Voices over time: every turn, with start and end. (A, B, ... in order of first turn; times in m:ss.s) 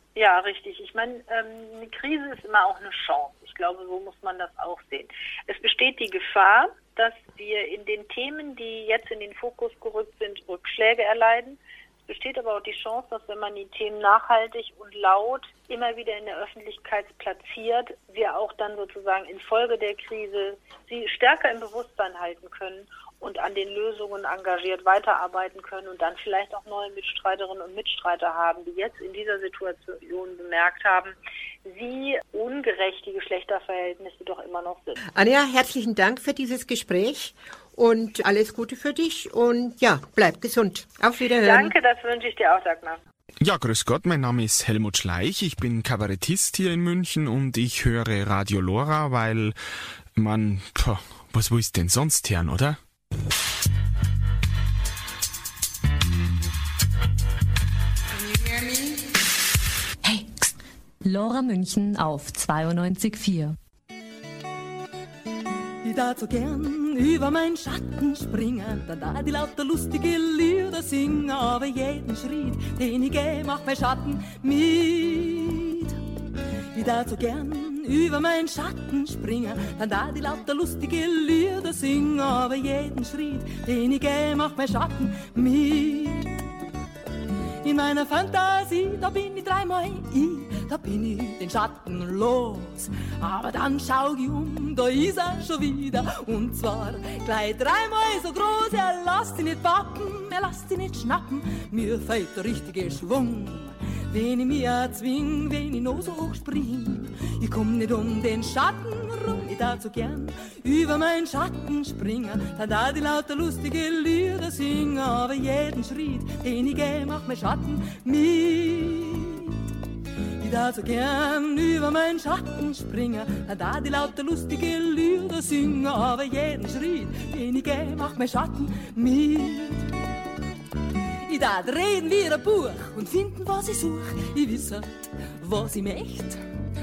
0:00.2-0:31.1 A
0:31.6-0:35.0 A
0:35.1-0:41.7 B
0:41.4-0:43.0 A
0:43.4-0:49.6 C
0:50.1-0:52.8 C
1:00.0-1:00.5 D
1:01.0-1:03.5 D
1:05.8-1:16.0 E
1:16.7-1:26.4 E
1:27.6-1:59.6 E
2:00.4-2:10.0 E
2:11.2-2:16.4 E